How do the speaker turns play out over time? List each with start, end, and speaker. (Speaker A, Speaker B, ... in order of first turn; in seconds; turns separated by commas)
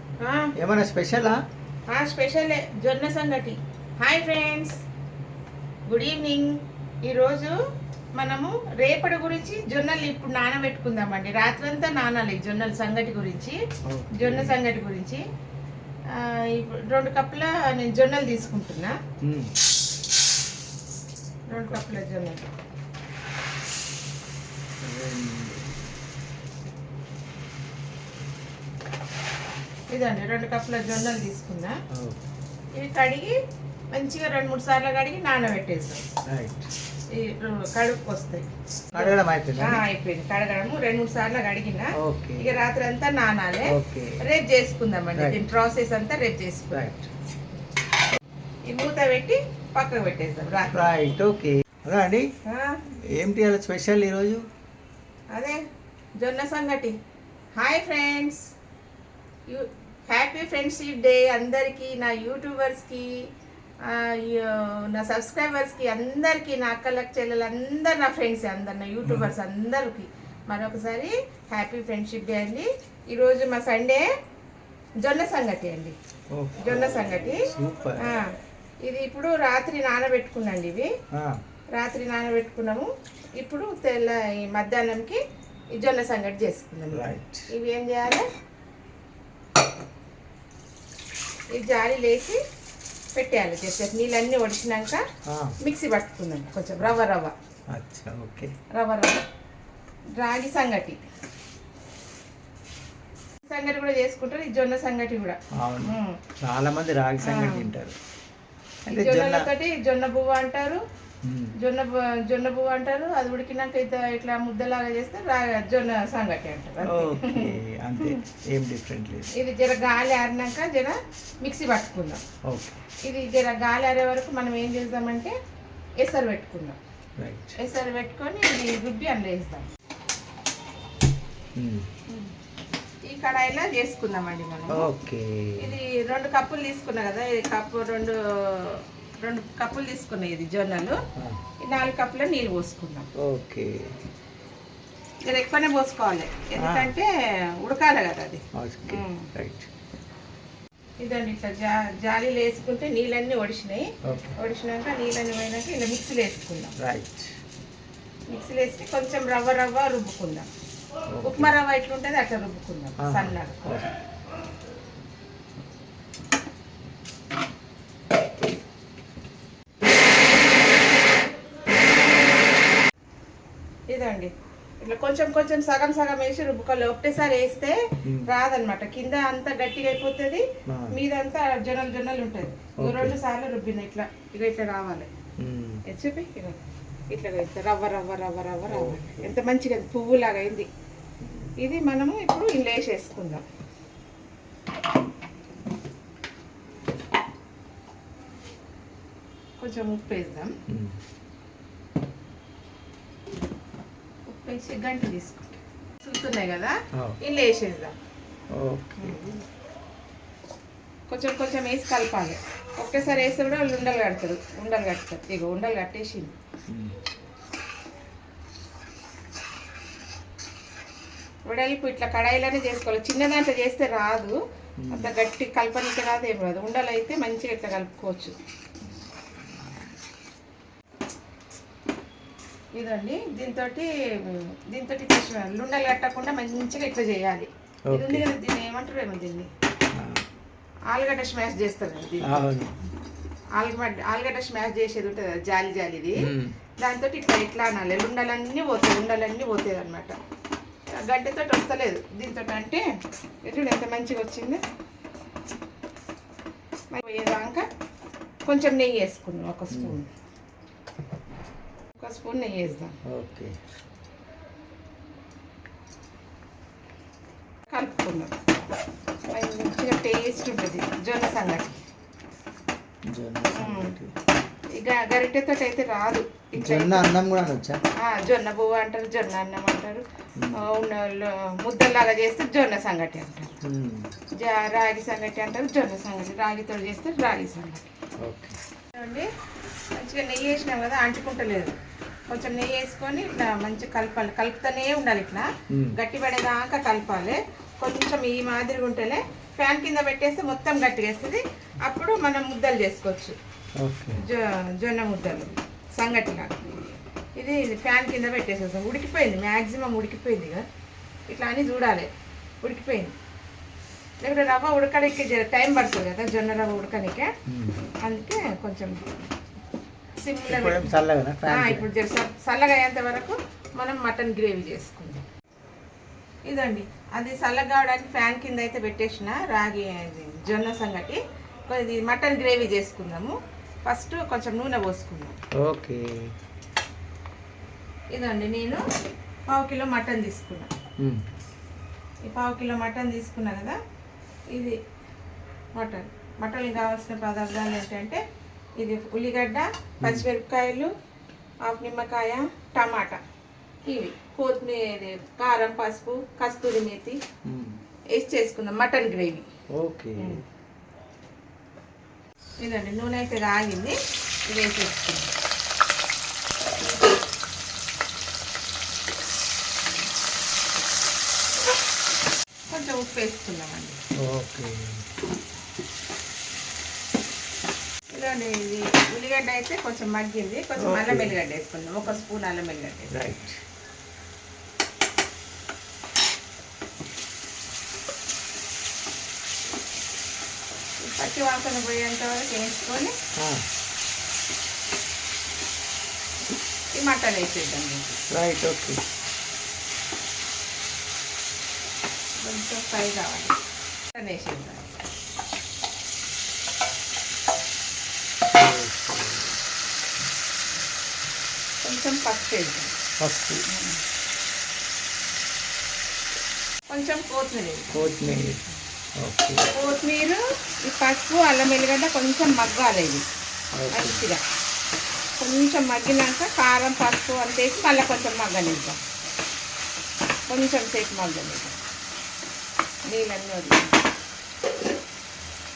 Speaker A: 0.2-0.5, Speaker B: 0.6-1.4, Speaker A: 1.9-4.8, Speaker A: 5.9-7.6, Speaker A: 8.2-13.6, Speaker B: 13.9-14.6, Speaker A: 14.2-15.2, Speaker A: 16.1-19.0, Speaker B: 19.2-19.5, Speaker B: 21.5-22.0, Speaker A: 21.5-22.5, Speaker B: 24.8-25.7, Speaker A: 29.9-31.8, Speaker B: 31.9-32.2, Speaker A: 32.8-33.4, Speaker A: 33.9-36.1, Speaker B: 36.3-36.7, Speaker A: 37.1-46.9, Speaker B: 39.0-39.8, Speaker B: 42.0-42.5, Speaker B: 43.7-44.2, Speaker B: 45.1-45.4, Speaker B: 46.7-47.1, Speaker A: 48.7-50.9, Speaker B: 50.7-52.3, Speaker A: 52.5-52.8, Speaker B: 53.1-54.4, Speaker A: 55.3-55.6, Speaker A: 56.2-57.0, Speaker A: 57.6-58.5, Speaker A: 59.5-74.1, Speaker B: 69.0-69.3, Speaker A: 75.0-76.0, Speaker B: 76.3-78.2, Speaker A: 76.6-78.3, Speaker A: 78.8-80.9, Speaker A: 81.8-85.2, Speaker A: 85.8-88.3, Speaker B: 86.9-87.5, Speaker A: 91.5-92.4, Speaker A: 93.2-95.0, Speaker B: 95.3-95.5, Speaker A: 95.6-97.4, Speaker B: 97.7-98.5, Speaker A: 98.7-99.2, Speaker A: 100.2-101.0, Speaker A: 103.4-106.2, Speaker B: 105.6-107.9, Speaker A: 107.2-107.7, Speaker B: 108.9-109.5, Speaker A: 108.9-110.8, Speaker B: 111.2-111.5, Speaker A: 111.6-118.2, Speaker B: 116.8-119.3, Speaker A: 119.3-122.2, Speaker B: 122.5-122.8, Speaker A: 123.0-125.3, Speaker A: 126.0-126.8, Speaker B: 127.2-127.6, Speaker A: 127.6-129.7, Speaker B: 131.6-131.8, Speaker A: 132.1-132.3, Speaker A: 133.1-134.9, Speaker B: 134.7-135.8, Speaker A: 135.6-141.0, Speaker A: 141.7-143.1, Speaker B: 143.2-143.8, Speaker A: 145.3-149.3, Speaker B: 146.6-146.9, Speaker B: 148.6-149.7, Speaker A: 151.0-156.8, Speaker B: 154.1-154.4, Speaker B: 156.8-157.3, Speaker A: 158.3-160.5, Speaker B: 161.1-161.5, Speaker A: 161.2-163.6, Speaker B: 163.0-163.9, Speaker A: 173.9-185.1, Speaker B: 180.7-180.9, Speaker B: 182.8-183.2, Speaker B: 185.4-185.8, Speaker A: 185.9-190.7, Speaker B: 188.7-189.3, Speaker B: 191.2-191.5, Speaker A: 191.6-193.4, Speaker A: 199.6-200.5, Speaker B: 200.7-201.0, Speaker A: 204.3-207.9, Speaker B: 208.6-209.4, Speaker A: 209.0-209.3, Speaker A: 211.1-216.4, Speaker B: 216.7-216.9, Speaker A: 221.4-224.4, Speaker B: 224.8-225.1, Speaker A: 224.9-228.4, Speaker A: 232.7-239.5, Speaker B: 237.9-238.3, Speaker B: 239.9-240.2, Speaker A: 240.9-242.5, Speaker B: 242.2-242.8, Speaker A: 243.5-246.3, Speaker B: 246.2-246.6, Speaker A: 246.8-250.2, Speaker A: 250.9-252.9, Speaker A: 253.4-254.6, Speaker A: 256.9-257.7, Speaker A: 258.5-260.1, Speaker B: 259.7-260.0, Speaker A: 262.0-263.0, Speaker B: 263.1-263.5, Speaker A: 267.7-268.5, Speaker A: 269.3-271.8, Speaker B: 273.1-274.1, Speaker A: 273.6-274.0, Speaker A: 274.7-277.1, Speaker B: 276.6-277.8, Speaker A: 278.0-280.1, Speaker B: 280.4-280.6, Speaker A: 280.6-283.6, Speaker B: 283.6-284.1, Speaker A: 284.4-287.9, Speaker B: 288.2-288.6, Speaker A: 288.9-289.3, Speaker A: 289.9-291.8, Speaker A: 292.3-303.4, Speaker B: 303.8-304.2, Speaker A: 304.2-310.6, Speaker A: 311.3-312.1, Speaker A: 312.6-313.1, Speaker A: 314.2-317.3, Speaker B: 317.5-317.8, Speaker A: 318.0-319.1, Speaker A: 320.2-320.9, Speaker B: 320.5-321.9, Speaker A: 321.5-325.2, Speaker A: 326.5-335.4, Speaker B: 335.6-336.1, Speaker A: 338.1-338.8, Speaker A: 339.5-340.7, Speaker A: 342.3-343.8, Speaker A: 345.8-348.2, Speaker A: 348.8-350.9, Speaker A: 351.6-353.2, Speaker A: 353.9-357.2, Speaker B: 357.5-357.8, Speaker A: 358.1-359.5, Speaker B: 359.8-360.4, Speaker A: 362.6-365.3, Speaker A: 372.7-374.0, Speaker B: 374.2-375.0, Speaker A: 378.1-383.2, Speaker B: 380.8-381.3, Speaker B: 383.1-383.6, Speaker A: 391.0-393.2, Speaker B: 393.4-393.6, Speaker A: 396.9-398.1, Speaker B: 398.3-399.0, Speaker A: 402.4-403.6, Speaker A: 404.1-405.0, Speaker B: 408.5-409.6, Speaker A: 411.8-413.0, Speaker B: 413.2-413.6, Speaker A: 413.7-414.0, Speaker A: 416.9-418.3, Speaker B: 417.9-418.6, Speaker B: 419.2-419.7, Speaker A: 419.7-423.2, Speaker B: 423.8-424.2, Speaker A: 423.9-424.4, Speaker A: 425.4-429.0, Speaker A: 430.5-431.8, Speaker A: 433.1-434.0